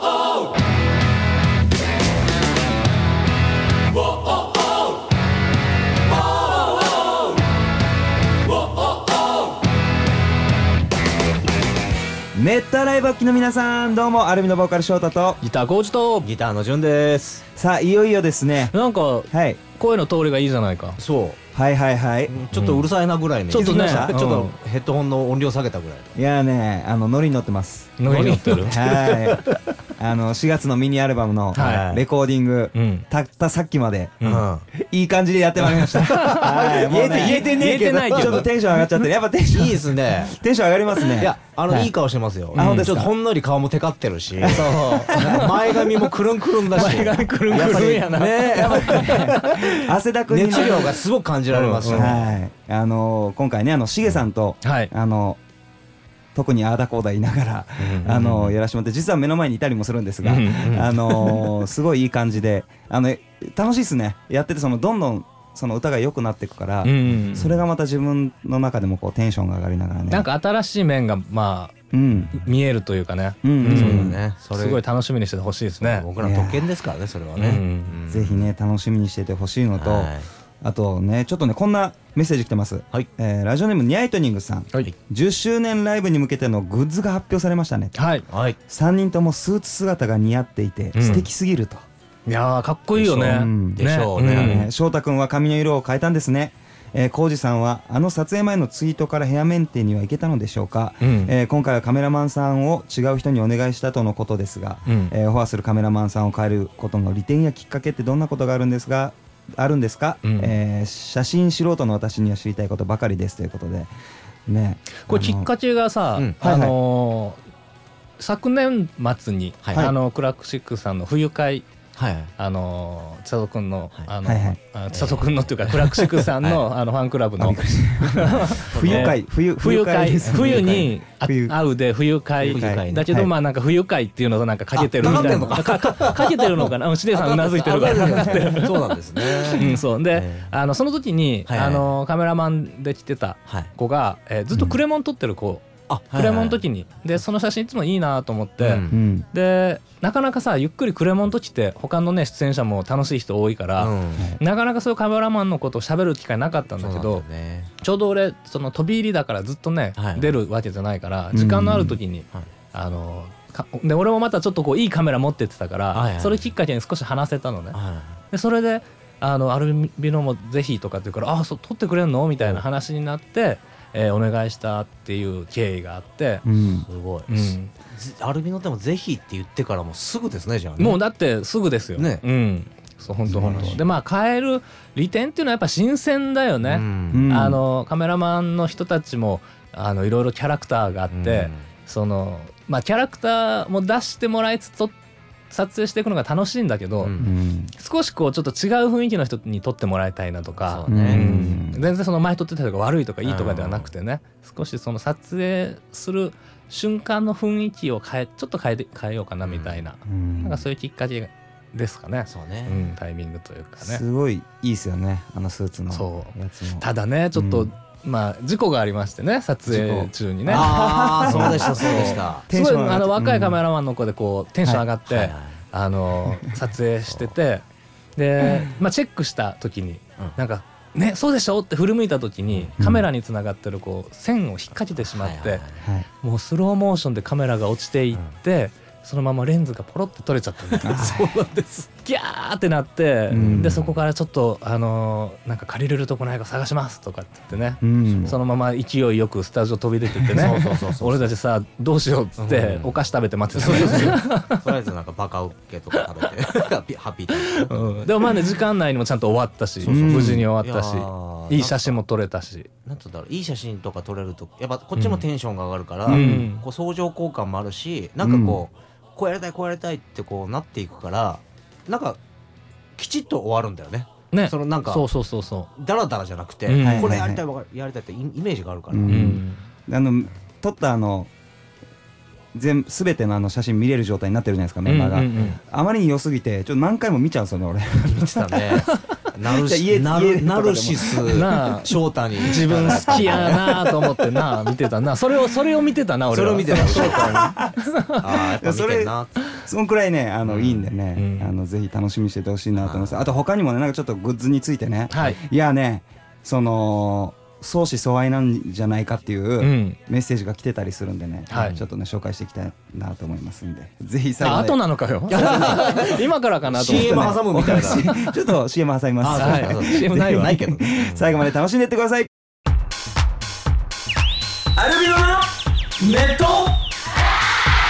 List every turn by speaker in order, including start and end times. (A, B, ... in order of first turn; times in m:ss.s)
0:12.3-0:15.4 A
0:15.4-0:16.3 B
0:16.2-0:17.4 C
0:17.6-0:18.7 A
0:18.7-0:21.0 B
0:19.3-0:19.6 A
0:21.0-0:21.4 C
0:21.5-0:22.4 A
0:22.3-0:26.1 C
0:22.5-0:22.8 B
0:23.5-0:24.6 B
0:23.5-0:24.2 A
0:26.1-0:41.9 A
0:28.0-0:28.8 B
0:28.1-0:29.6 C
0:31.5-0:31.9 B
0:31.5-0:32.0 C
0:32.7-0:33.0 B
0:34.2-0:34.7 C
0:35.6-0:38.6 C
0:36.0-0:38.5 B
0:39.5-0:40.4 C
0:41.0-0:49.7 C
0:42.5-0:43.1 A
0:42.5-0:43.0 B
0:44.4-0:45.6 A
0:44.4-0:46.1 B
0:46.7-0:49.7 B
0:47.6-0:47.9 A
0:48.4-0:51.0 A
0:50.3-0:52.3 C
0:51.5-0:52.1 B
0:51.8-0:55.4 A
0:54.6-0:54.9 B
0:56.3-1:10.3 A
0:57.8-0:58.6 C
0:57.8-0:58.1 B
1:00.2-1:01.5 B
1:00.6-1:00.9 C
1:06.8-1:07.6 B
1:10.1-1:11.7 B
1:11.9-1:12.4 A
1:12.3-1:16.1 B
1:13.4-1:14.2 A
1:13.6-1:14.8 C
1:15.8-1:18.5 C
1:16.2-1:16.7 A
1:17.4-1:18.0 B
1:18.1-1:28.1 A
1:19.8-1:20.3 C
1:27.9-1:28.2 B
1:28.3-1:28.6 C
1:28.7-1:31.8 A
1:30.9-1:31.3 B
1:32.3-1:34.7 B
1:33.0-1:53.9 A
1:33.8-1:34.7 C
1:41.0-1:41.3 B
1:44.8-1:45.1 B
1:50.2-1:50.5 B
1:54.5-1:55.5 A
1:55.0-1:57.4 B
1:56.4-1:56.8 A
1:58.2-2:01.7 B
1:59.6-1:59.9 C
2:02.0-2:02.3 C
2:02.4-2:37.2 B
2:04.2-2:04.6 A
2:04.9-2:06.6 C
2:07.4-2:11.6 A
2:08.6-2:09.2 C
2:10.2-2:10.9 C
2:12.4-2:13.1 C
2:12.6-2:13.3 A
2:14.8-2:20.5 C
2:15.0-2:15.4 A
2:21.5-2:21.9 C
2:24.5-2:24.8 A
2:25.9-2:26.6 C
2:28.6-2:29.0 C
2:28.9-2:29.2 A
2:33.8-2:34.3 C
2:36.8-2:37.7 C
2:37.8-2:47.8 B
2:40.0-2:40.4 C
2:41.3-2:42.0 A
2:45.9-2:46.5 C
2:47.7-2:48.2 C
2:48.3-2:56.4 B
2:56.4-2:56.9 A
2:56.8-3:01.0 C
2:57.3-2:57.7 B
3:00.8-3:14.9 B
3:02.0-3:02.2 C
3:03.3-3:03.8 A
3:03.3-3:03.8 C
3:06.6-3:07.3 C
3:07.1-3:07.6 A
3:11.1-3:11.6 C
3:15.5-3:17.1 B
3:17.0-3:17.3 C
3:17.2-3:17.7 A
3:17.8-3:34.0 B
3:20.6-3:21.4 C
3:20.9-3:21.8 A
3:23.2-3:23.9 C
3:29.4-3:29.8 C
3:30.0-3:30.6 A
3:32.3-3:32.8 C
3:33.8-3:37.7 A
3:35.9-3:47.6 B
3:39.7-3:43.6 A
3:40.5-3:42.4 C
3:45.0-3:45.6 C
3:48.2-3:55.6 B
3:52.8-3:53.0 A
3:55.0-3:55.8 C
3:55.8-3:56.1 A
3:56.2-4:14.6 B
4:00.8-4:01.7 C
4:00.8-4:01.3 A
4:03.3-4:03.9 A
4:03.3-4:03.9 C
4:07.8-4:08.3 A
4:10.3-4:11.3 C
4:12.4-4:13.0 C
4:13.5-4:18.5 C
4:15.9-4:16.3 B
4:17.3-4:22.7 B
4:19.8-4:22.0 C
4:19.8-4:20.5 A
4:22.8-4:32.2 C
4:25.0-4:25.2 B
4:26.1-4:26.6 B
4:26.1-4:26.5 A
4:28.2-4:28.6 A
4:33.0-4:35.0 C
4:34.3-4:35.7 B
4:35.8-4:39.3 C
4:36.7-4:37.2 B
4:36.8-4:37.4 A
4:38.9-4:41.3 A
4:39.1-4:39.6 B
4:42.5-4:48.7 A
4:44.8-4:45.6 B
4:48.0-4:54.2 C
4:48.9-4:49.3 B
4:49.5-4:51.5 A
4:51.3-4:58.2 B
4:52.6-4:53.8 A
4:56.3-4:57.5 C
4:56.7-5:16.1 A
4:58.1-4:59.5 C
5:00.4-5:00.9 C
5:01.1-5:01.5 B
5:02.8-5:03.3 C
5:05.1-5:05.4 B
5:09.6-5:10.0 B
5:11.5-5:11.8 B
5:14.4-5:18.1 B
5:15.3-5:18.1 C
5:16.9-5:22.3 A
5:19.2-5:21.3 C
5:19.3-5:20.7 B
5:24.8-5:25.5 A
5:26.0-5:26.7 A